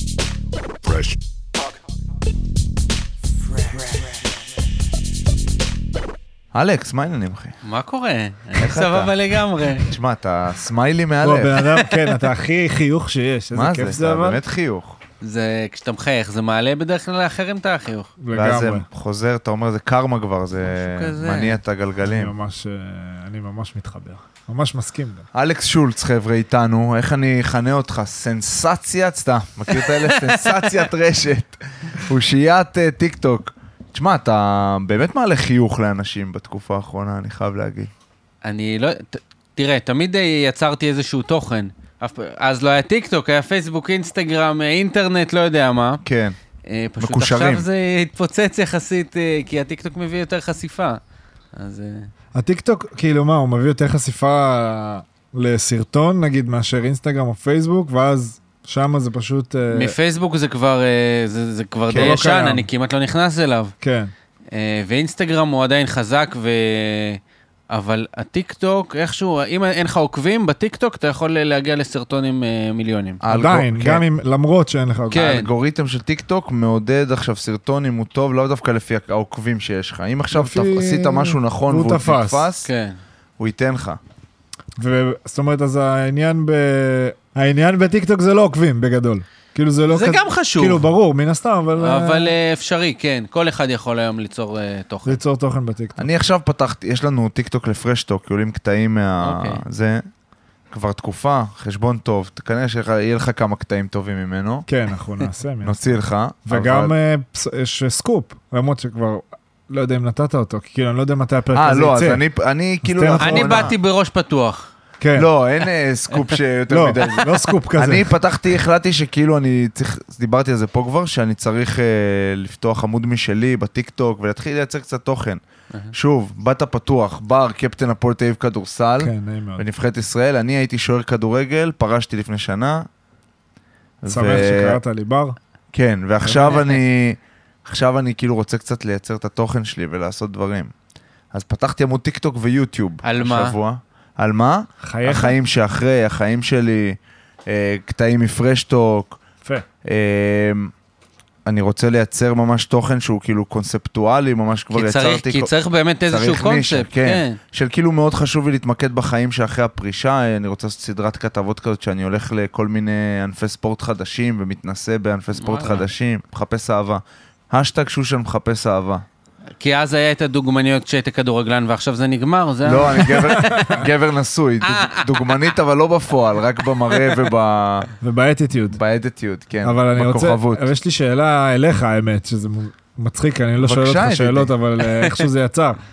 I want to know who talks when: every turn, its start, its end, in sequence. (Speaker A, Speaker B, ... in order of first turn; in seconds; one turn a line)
Speaker A: 6.5-7.6
Speaker B: 7.6-9.9
Speaker A: 8.5-9.1
Speaker A: 9.8-11.8
Speaker C: 11.2-14.4
Speaker A: 13.5-15.0
Speaker B: 15.2-18.1
Speaker C: 18.2-18.9
Speaker A: 18.3-22.3
Speaker B: 20.6-21.6
Speaker C: 22.0-25.2
Speaker A: 25.3-37.9
Speaker B: 29.7-30.7
Speaker B: 38.4-46.0
Speaker A: 46.0-46.4
Speaker B: 46.6-51.0
Speaker A: 47.0-47.6
Speaker B: 51.5-52.1
Speaker C: 52.3-59.9
Speaker B: 59.7-63.7
Speaker A: 61.9-62.2
Speaker C: 61.9-62.7
Speaker C: 63.8-64.1
Speaker B: 64.5-73.2
Speaker A: 73.2-74.0
Speaker C: 73.3-75.3
Speaker B: 75.1-75.5
Speaker A: 75.1-82.7
Speaker C: 80.3-82.5
Speaker B: 82.6-83.0
Speaker A: 83.4-84.0
Speaker C: 84.8-92.3
Speaker B: 89.9-90.8
Speaker B: 91.8-95.2
Speaker C: 95.0-96.1
Speaker A: 96.0-100.0
Speaker B: 99.2-99.6
Speaker A: 100.7-104.7
Speaker C: 104.7-105.9
Speaker A: 105.6-106.9
Speaker C: 106.5-112.2
Speaker A: 111.5-113.7
Speaker C: 112.8-113.7
Speaker B: 113.2-114.7
Speaker C: 115.0-115.3
Speaker A: 115.2-125.4
Speaker C: 116.7-118.1
Speaker A: 125.9-132.9
Speaker C: 129.0-129.6
Speaker A: 134.0-134.8
Speaker C: 134.1-135.3
Speaker A: 135.7-140.7
Speaker B: 136.2-136.8
Speaker A: 141.3-149.2
Speaker B: 143.0-143.5
Speaker C: 144.8-145.4
Speaker A: 149.8-150.7
Speaker A: 151.4-155.5
Speaker B: 154.7-157.4
Speaker A: 156.1-169.0
Speaker B: 165.4-165.8
Speaker B: 169.6-173.8
Speaker A: 172.6-177.9
Speaker C: 173.2-173.8
Speaker B: 174.7-175.1
Speaker C: 178.0-178.8
Speaker A: 178.8-180.7
Speaker C: 179.6-185.8
Speaker A: 183.6-184.5